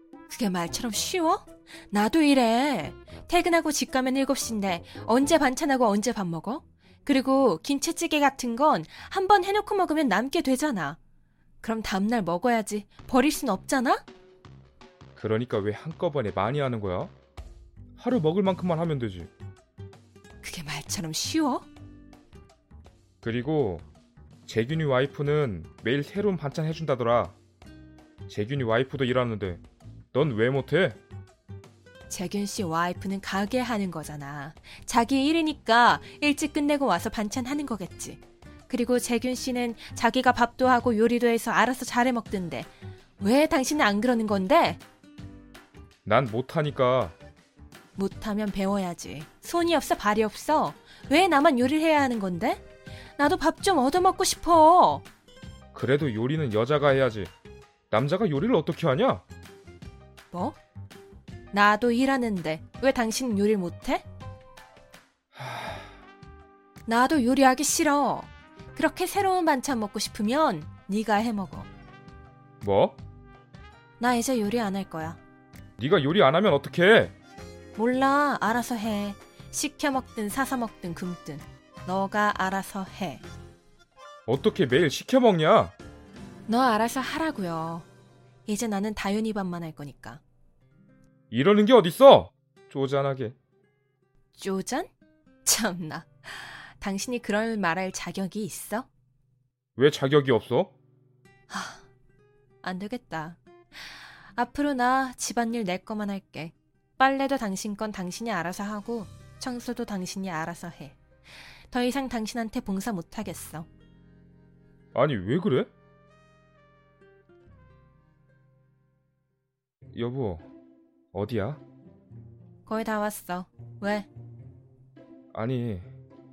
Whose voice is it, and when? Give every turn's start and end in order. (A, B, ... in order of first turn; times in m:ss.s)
0:00.3-0:11.0 A
0:11.6-0:14.0 A
0:15.2-0:17.1 B
0:18.0-0:19.3 B
0:20.4-0:21.7 A
0:23.2-0:23.9 B
0:24.5-0:27.4 B
0:28.3-0:31.0 B
0:32.1-0:44.8 A
0:46.0-0:47.2 B
0:48.0-0:52.6 A
0:53.2-0:55.0 A
0:55.7-0:57.3 B
0:57.9-0:59.2 B
1:00.3-1:00.6 A
1:01.5-1:04.0 A
1:05.3-1:06.0 B
1:06.9-1:11.7 A
1:12.6-1:13.0 B
1:14.0-1:15.2 A
1:15.8-1:17.1 B
1:17.8-1:23.2 A
1:24.3-1:25.7 B
1:26.5-1:27.9 A
1:28.5-1:30.2 A
1:31.3-1:33.4 B
1:34.4-1:34.9 A
1:35.4-1:38.9 A
1:39.8-1:40.7 B
1:41.5-1:41.8 A
1:42.6-1:53.7 A
1:54.9-1:55.7 B
1:59.9-2:00.5 B
2:01.1-2:01.6 B
2:02.7-2:04.1 A
2:05.3-2:05.9 B